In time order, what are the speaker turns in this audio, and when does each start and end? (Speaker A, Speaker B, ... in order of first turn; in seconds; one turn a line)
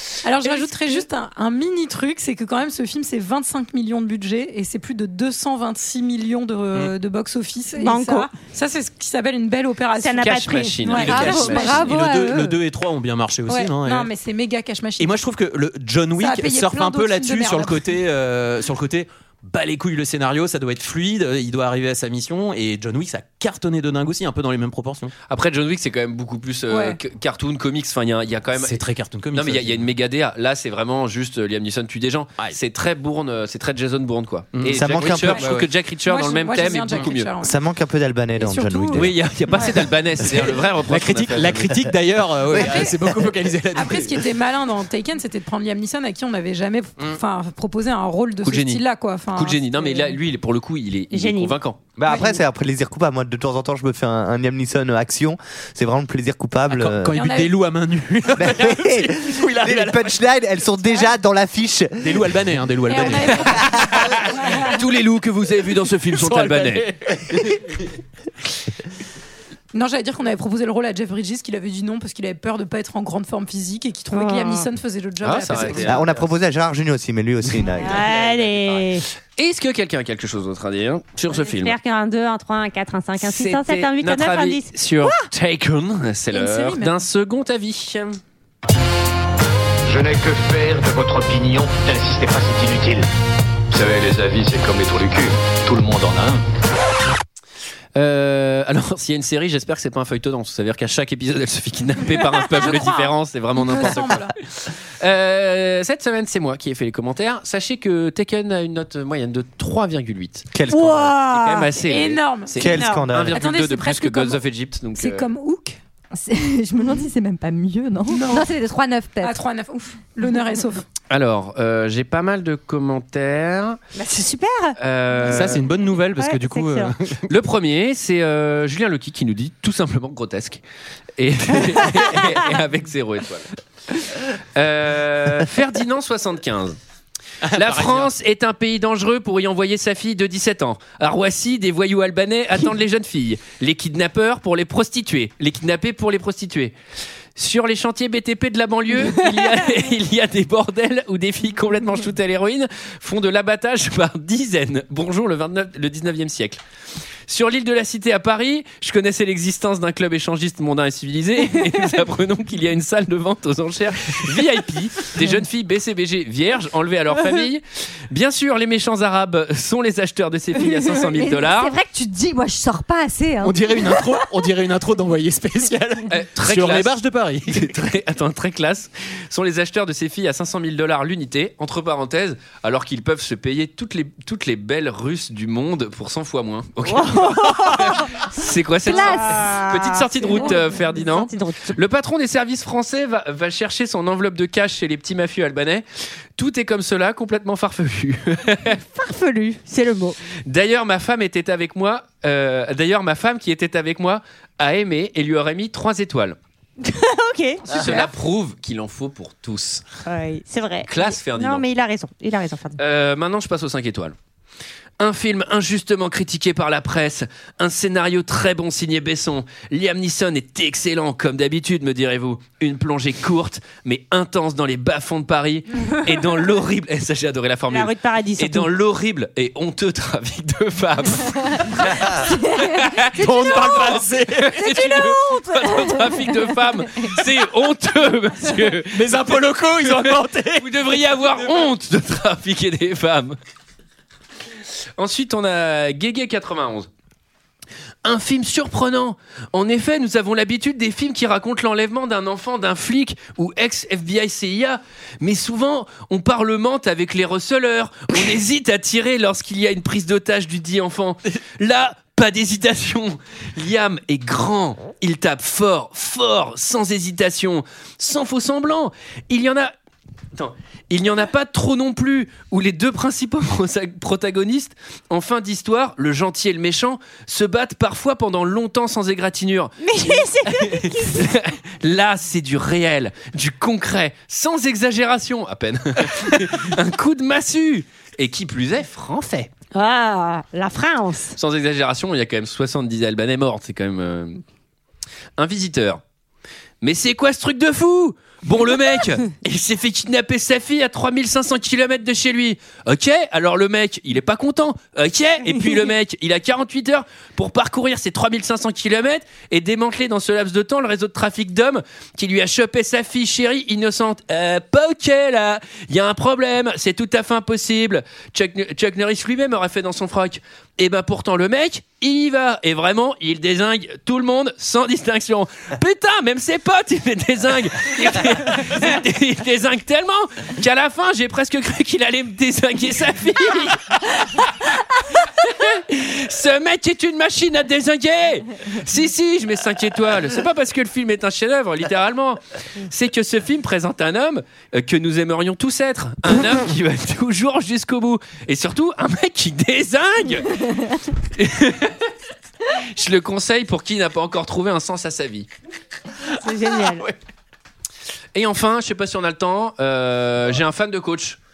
Speaker A: 0.2-11.7
Speaker B: 0.4-0.8
Speaker B: 7.8-8.3
Speaker B: 10.0-11.1
Speaker C: 10.2-11.9
Speaker D: 11.0-14.1
Speaker E: 11.0-12.6
Speaker A: 13.5-15.2
Speaker D: 15.0-25.1
Speaker A: 16.2-17.9
Speaker C: 25.3-37.3
Speaker A: 26.7-27.0
Speaker D: 28.6-29.9
Speaker D: 34.5-35.7
Speaker F: 34.7-35.4
Speaker A: 36.0-37.6
Speaker F: 37.4-39.1
Speaker A: 38.4-39.9
Speaker C: 38.9-41.8
Speaker D: 40.3-44.2
Speaker F: 42.5-43.0
Speaker A: 42.6-43.1
Speaker A: 43.7-50.2
Speaker C: 48.4-51.8
Speaker B: 51.1-51.6
Speaker F: 52.0-57.2
Speaker A: 52.0-52.4
Speaker D: 56.7-60.1
Speaker A: 57.1-57.6
Speaker F: 58.4-62.4
Speaker D: 62.0-63.7
Speaker A: 62.9-64.8
Speaker C: 64.0-66.9
Speaker D: 66.1-67.8
Speaker A: 69.7-75.9
Speaker B: 74.1-74.7
Speaker C: 75.2-76.1
Speaker F: 75.8-78.0
Speaker B: 77.8-79.0
Speaker C: 78.1-78.8
Speaker C: 79.4-81.8
Speaker B: 81.3-85.2
Speaker C: 83.2-88.2
Speaker A: 86.3-87.0
Speaker G: 89.9-93.1
Speaker G: 93.7-96.4
Speaker C: 98.0-115.3
Speaker A: 102.5-104.3
Speaker F: 110.5-111.1
Speaker B: 110.7-111.7
Speaker A: 111.8-112.7
Speaker F: 112.6-113.4
Speaker B: 112.8-113.1
Speaker A: 113.3-114.4
Speaker A: 115.0-115.8
Speaker E: 116.2-119.4
Speaker A: 118.1-118.5
Speaker A: 119.2-120.8
Speaker C: 121.1-123.8
Speaker B: 124.0-124.8
Speaker C: 124.8-125.6
Speaker D: 125.2-127.2
Speaker B: 126.2-126.9
Speaker C: 127.3-130.6
Speaker C: 131.2-133.5
Speaker C: 134.2-136.8
Speaker D: 137.4-138.1
Speaker C: 137.5-146.7
Speaker C: 147.4-156.6
Speaker C: 157.3-171.7
Speaker E: 171.0-174.3
Speaker D: 173.4-177.8
Speaker C: 176.1-195.8
Speaker B: 186.9-188.2
Speaker B: 188.8-191.8
Speaker E: 188.9-189.4
Speaker C: 196.4-198.8
Speaker B: 198.7-200.2
Speaker C: 200.5-206.4
Speaker B: 206.8-207.6
Speaker A: 207.7-208.1
Speaker C: 207.7-209.8
Speaker B: 210.1-212.8
Speaker C: 210.9-211.6
Speaker C: 212.8-214.2
Speaker C: 215.0-243.4
Speaker B: 227.7-228.7
Speaker E: 232.3-233.9
Speaker D: 233.2-234.7
Speaker D: 238.9-240.8
Speaker C: 245.0-246.9
Speaker C: 248.0-269.7
Speaker C: 270.4-289.5
Speaker B: 279.8-281.3
Speaker B: 289.7-291.4
Speaker C: 291.4-294.4
Speaker C: 295.4-296.0
Speaker C: 296.8-352.1
Speaker C: 352.8-355.5
Speaker B: 356.4-357.1
Speaker C: 358.3-361.4